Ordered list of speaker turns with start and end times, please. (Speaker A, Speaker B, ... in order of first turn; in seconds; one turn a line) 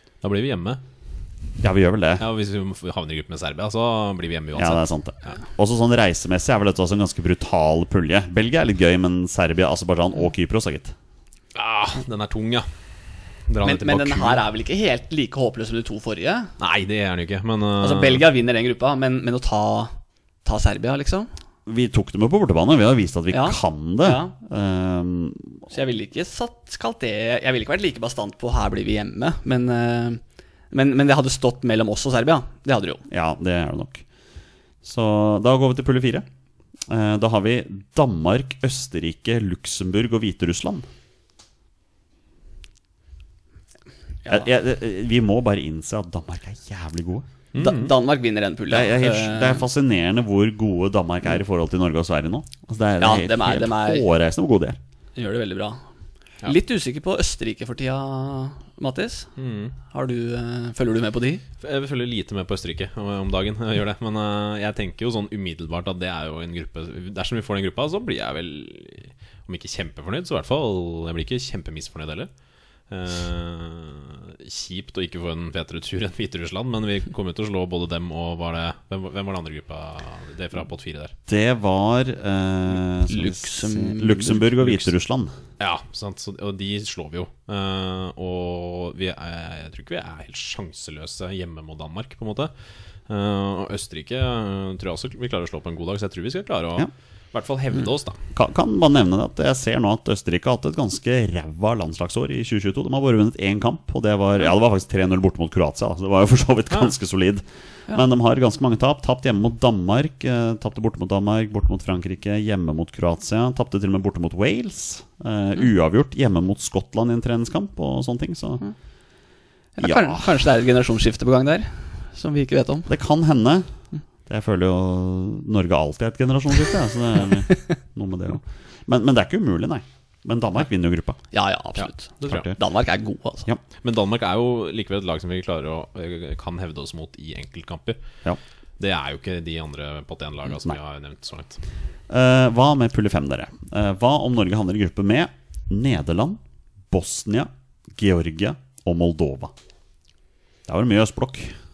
Speaker A: 0.2-0.8
Speaker B: 1.6-2.3
Speaker A: 2.2-5.3
Speaker B: 4.5-10.9
Speaker A: 11.6-12.7
Speaker A: 13.5-14.4
Speaker C: 13.6-16.5
Speaker A: 16.6-18.3
Speaker C: 17.8-19.9
Speaker C: 20.4-21.3
Speaker B: 21.7-25.7
Speaker C: 23.3-24.3
Speaker C: 25.7-33.0
Speaker B: 33.1-34.0
Speaker B: 34.8-36.3
Speaker B: 36.9-40.9
Speaker B: 44.3-47.3
Speaker A: 47.5-47.9
Speaker C: 47.6-49.6
Speaker B: 48.7-54.8
Speaker C: 53.0-54.0
Speaker C: 55.2-55.8
Speaker C: 56.4-59.3
Speaker A: 59.4-59.7
Speaker C: 59.9-61.4
Speaker A: 61.6-72.3
Speaker A: 72.9-81.1
Speaker B: 81.3-85.3
Speaker C: 83.1-84.8
Speaker A: 85.6-92.5
Speaker A: 93.1-98.2
Speaker B: 98.3-118.6
Speaker C: 119.8-122.9
Speaker B: 119.8-120.3
Speaker B: 122.9-123.7
Speaker B: 124.3-131.2
Speaker C: 131.3-133.5
Speaker A: 131.8-132.5
Speaker B: 132.2-132.6
Speaker A: 133.8-138.0
Speaker A: 138.8-141.6
Speaker B: 142.1-146.4
Speaker B: 146.9-149.5
Speaker B: 150.7-151.6